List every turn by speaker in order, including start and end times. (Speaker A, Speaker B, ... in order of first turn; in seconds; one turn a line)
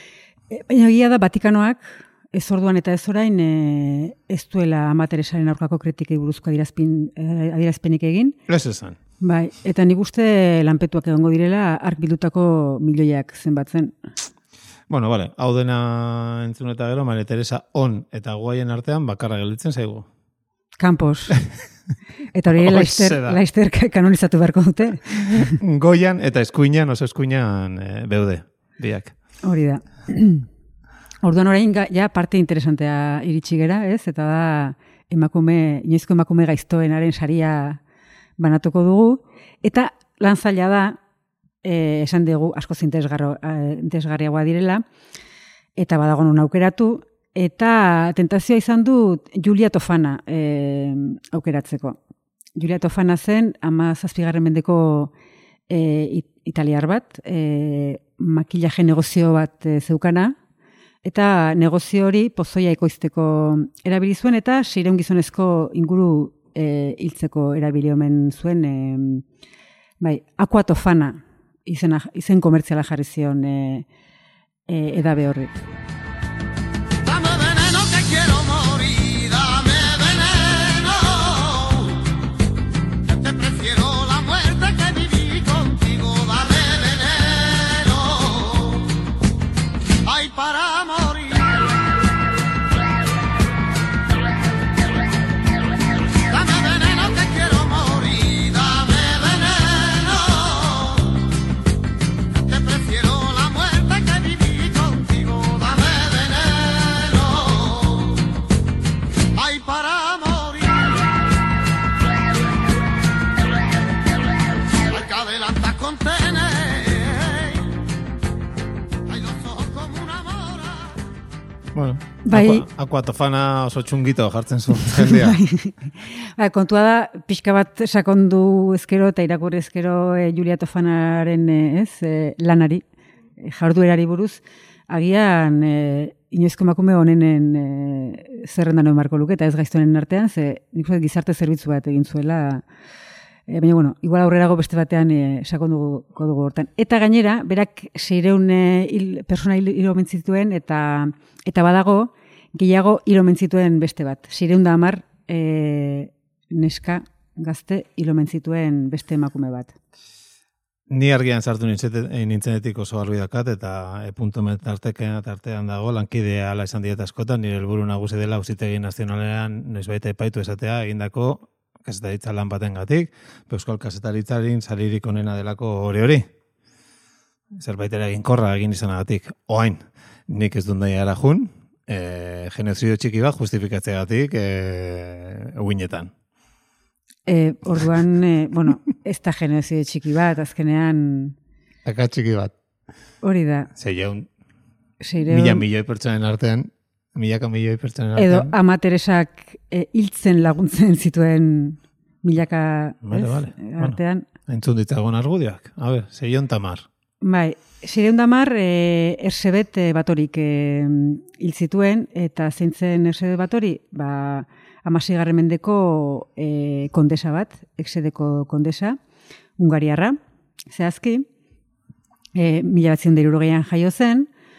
Speaker A: 0.5-8.4
Speaker B: 8.5-9.0
Speaker A: 9.2-13.9
Speaker B: 14.9-20.1
Speaker A: 20.8-21.4
Speaker A: 22.3-25.6
Speaker B: 22.5-23.4
Speaker B: 25.6-29.1
Speaker A: 29.4-30.5
Speaker A: 31.2-37.8
Speaker A: 38.4-41.0
Speaker A: 41.6-44.8
Speaker A: 45.8-52.0
Speaker A: 52.6-55.1
Speaker A: 55.7-60.4
Speaker A: 61.0-69.2
Speaker A: 70.0-73.9
Speaker A: 74.7-75.6
Speaker B: 121.7-125.4
Speaker A: 122.3-122.7
Speaker A: 124.8-132.8
Speaker A: 133.4-142.6
Speaker A: 143.5-159.8
Speaker B: 160.9-176.3
Speaker B: 177.6-186.1
Speaker A: 187.3-191.3
Speaker B: 191.8-192.5
Speaker A: 193.2-193.7
Speaker B: 193.8-194.3
Speaker A: 195.0-195.6
Speaker B: 195.2-198.6
Speaker A: 198.2-204.2
Speaker B: 203.0-206.9
Speaker A: 207.2-219.0
Speaker A: 219.6-220.2
Speaker A: 220.7-221.3
Speaker A: 222.3-224.3